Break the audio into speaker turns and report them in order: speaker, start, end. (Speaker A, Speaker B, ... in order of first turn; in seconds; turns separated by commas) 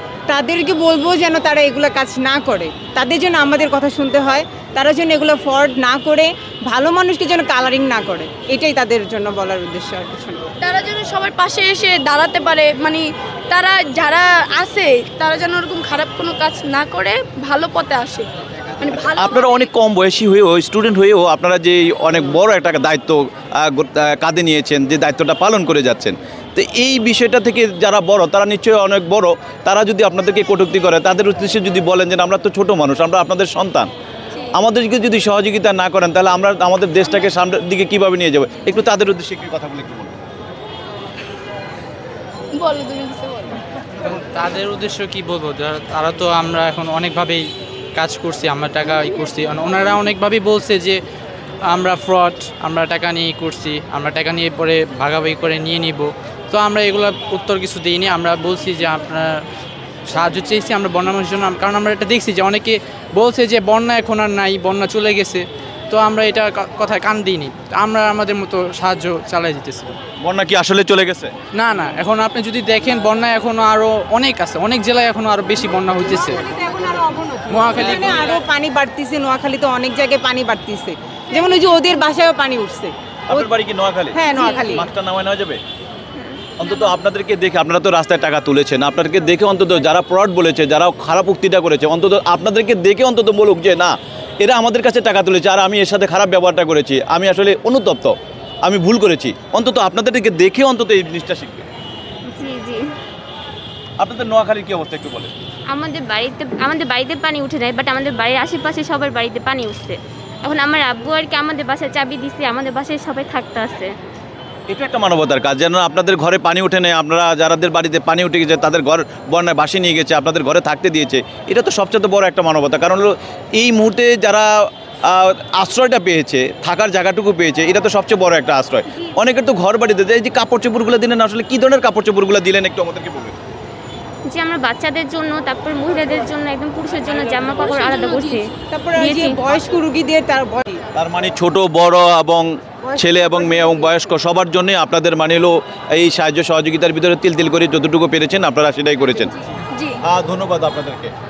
Speaker A: 0.3-10.4, Speaker B: 10.6-19.7, Speaker C: 18.9-33.9, Speaker C: 34.5-40.2, Speaker B: 42.6-43.6, Speaker D: 44.0-51.0, Speaker B: 49.1-49.9, Speaker D: 51.7-59.4, Speaker D: 60.1-69.9, Speaker C: 70.2-71.3, Speaker D: 71.6-76.5, Speaker A: 76.0-83.5, Speaker D: 77.5-78.3, Speaker C: 83.3-85.6, Speaker A: 84.1-84.8, Speaker E: 86.1-86.5, Speaker C: 86.6-101.7, Speaker E: 102.2-102.8, Speaker C: 104.0-105.3, Speaker E: 105.7-113.9, Speaker C: 114.7-124.5, Speaker C: 125.1-133.3, Speaker E: 134.3-139.4, Speaker B: 137.5-138.4, Speaker A: 138.7-140.8, Speaker C: 140.9-149.3, Speaker A: 142.8-143.3, Speaker B: 149.7-150.0, Speaker C: 150.0-151.1